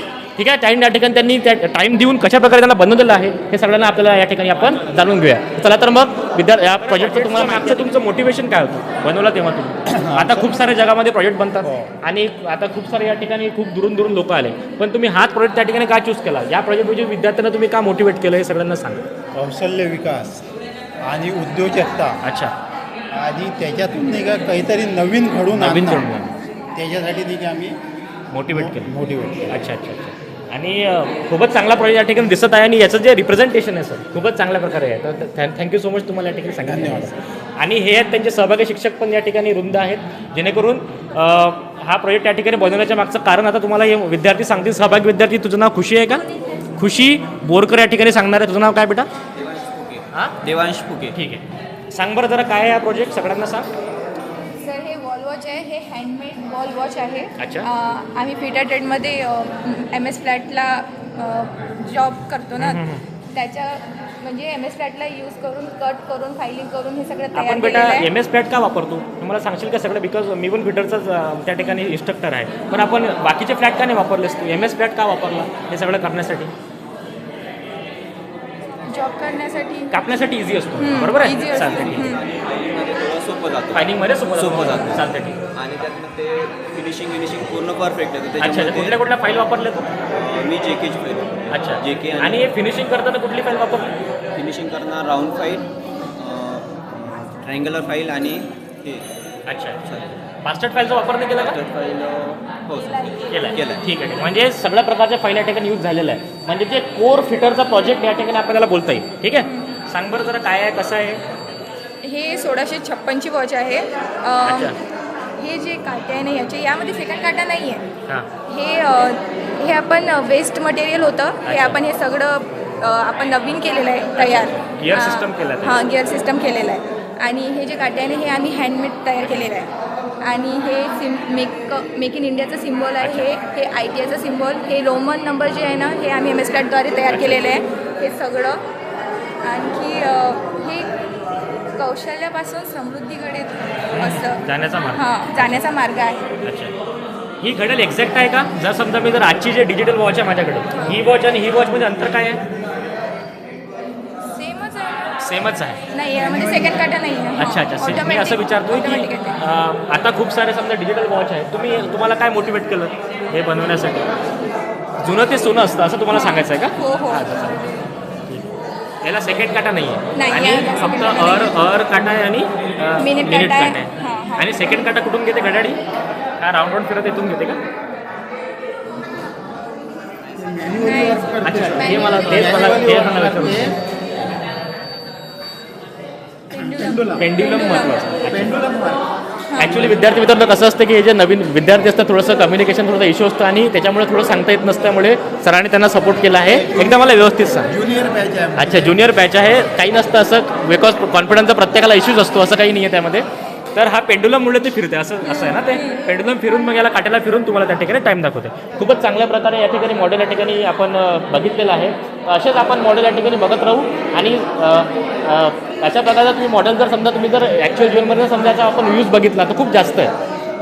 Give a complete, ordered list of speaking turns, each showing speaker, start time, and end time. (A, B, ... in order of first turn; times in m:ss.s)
0:00.4-0:19.0 A
0:09.9-0:10.6 B
0:11.6-0:11.9 B
0:19.3-0:20.5 B
0:21.0-0:22.2 B
0:22.2-0:22.5 A
0:23.1-0:26.1 B
0:25.5-0:26.3 A
0:26.7-0:27.8 B
0:28.3-0:28.9 A
0:28.5-0:29.6 B
0:29.5-0:49.1 A
0:36.6-0:37.1 B
0:49.4-0:51.2 C
0:50.1-0:50.4 A
0:51.1-0:53.7 A
0:54.6-1:08.1 D
0:57.4-0:57.7 A
1:02.6-1:03.0 A
1:07.3-1:16.5 A
1:18.8-1:20.0 D
1:19.9-1:22.1 A
1:20.8-1:22.2 D
1:21.2-1:29.0 C
1:23.7-1:25.4 A
1:28.4-1:29.9 A
1:30.0-1:32.5 C
1:31.5-1:33.9 A
1:34.3-1:39.1 C
1:39.5-1:39.9 A
1:39.8-1:40.2 C
1:40.4-1:41.6 A
1:41.4-1:43.8 C
1:42.7-1:43.6 D
1:43.3-1:51.2 A
1:49.4-1:49.8 D
1:52.0-1:54.8 D
1:54.4-1:54.8 A
1:55.4-1:57.8 D
1:58.5-2:09.7 D
2:01.4-2:01.8 A
2:04.2-2:05.8 A
2:10.2-2:18.6 D
2:13.0-2:13.3 A
2:17.1-2:17.6 A
2:19.4-2:20.9 D
2:21.8-2:26.2 D
2:23.9-2:25.0 A
2:26.4-2:26.7 A
2:27.4-2:32.4 A
2:30.7-2:31.0 D
2:34.2-2:35.2 D
2:35.2-2:35.8 A
2:35.9-2:39.4 D
2:36.2-2:36.8 B
2:37.4-2:44.1 A
2:45.0-2:47.6 A
2:46.1-2:47.4 D
2:49.0-2:55.8 A
2:50.2-2:51.6 D
2:53.0-2:54.6 D
2:56.4-2:57.6 A
3:00.4-3:03.8 B
3:00.8-3:02.9 D
3:01.4-3:03.8 A
3:06.5-3:08.2 D
3:06.6-3:07.2 B
3:07.2-3:08.5 A
3:08.2-3:09.1 B
3:09.5-3:09.9 D
3:09.6-3:17.7 A
3:16.5-3:17.1 B
3:17.7-3:19.0 B
3:18.6-3:40.1 A
3:25.2-3:25.9 D